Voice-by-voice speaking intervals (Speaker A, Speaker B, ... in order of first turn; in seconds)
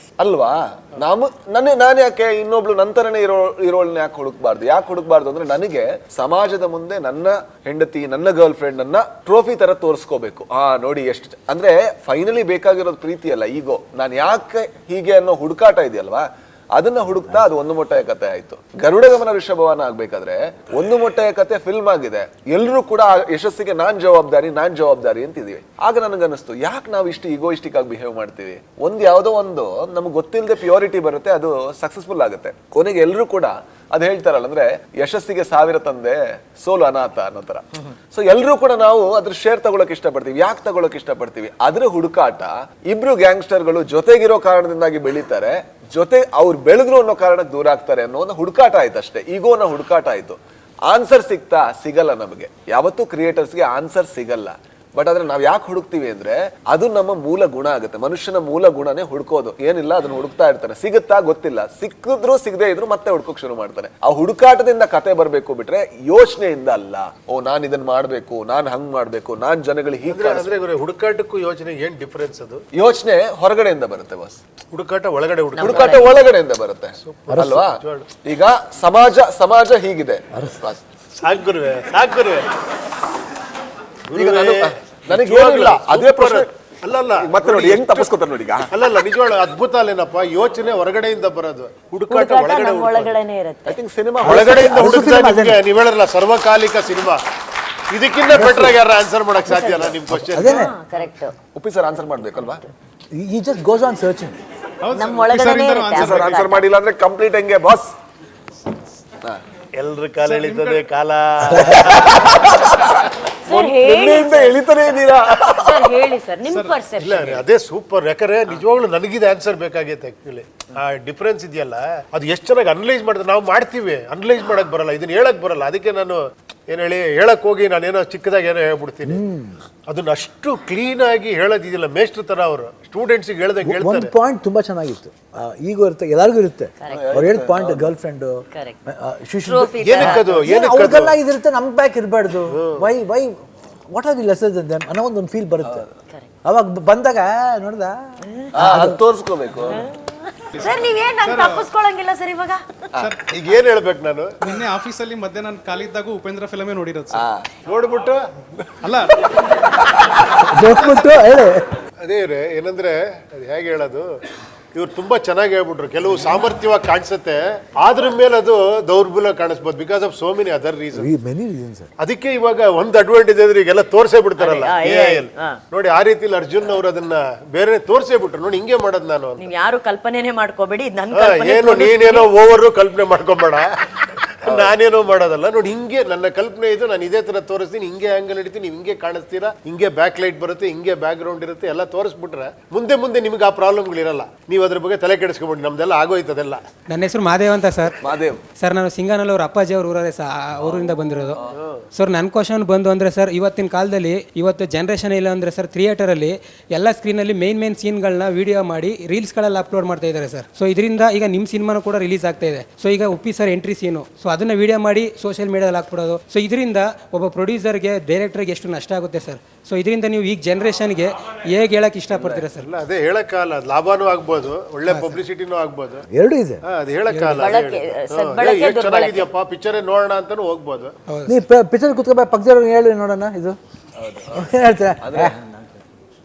Speaker A: 0.2-70.5, 72.7-74.4, 75.6-80.8, 84.1-86.5, 87.1-88.7, 93.7-94.7, 101.5-102.7, 106.0-108.0, 112.0-116.0, 136.9-137.9, 145.6-145.9, 148.5-149.8, 157.1-157.5, 198.0-198.4, 222.2-222.5, 234.0-234.5, 235.0-235.4
Speaker B: 70.1-72.6, 74.7-76.0, 77.1-78.1, 81.2-82.5, 84.1-88.1, 88.7-93.2, 94.2-97.2, 97.9-100.7, 109.8-112.1, 117.0-129.2, 129.9-134.1, 139.8-141.2, 142.5-142.9, 153.3-154.4, 157.7-158.2, 162.0-164.1, 164.7-171.1, 172.0-179.5, 181.1-183.7, 184.4-196.6, 222.6-226.0, 226.6-230.9
Speaker C: 75.6-76.2, 92.1-93.8, 99.5-99.9, 100.4-101.4, 104.9-106.6, 113.5-114.6, 115.5-117.4, 136.8-137.2, 139.4-140.5, 149.7-152.8, 174.4-175.6, 179.4-182.3, 227.4-229.3
Speaker D: 77.3-77.6, 94.2-95.6, 98.3-98.8, 100.1-100.8, 103.1-104.3, 129.1-129.6, 133.6-143.3, 143.9-145.9, 146.4-149.0, 160.4-161.7, 170.9-171.9, 226.1-227.6, 231.3-233.6, 234.3-235.7
Speaker E: 104.9-106.3, 110.3-110.8, 151.3-151.6, 154.5-157.2
Speaker F: 196.9-222.7, 224.9-225.2, 231.1-231.4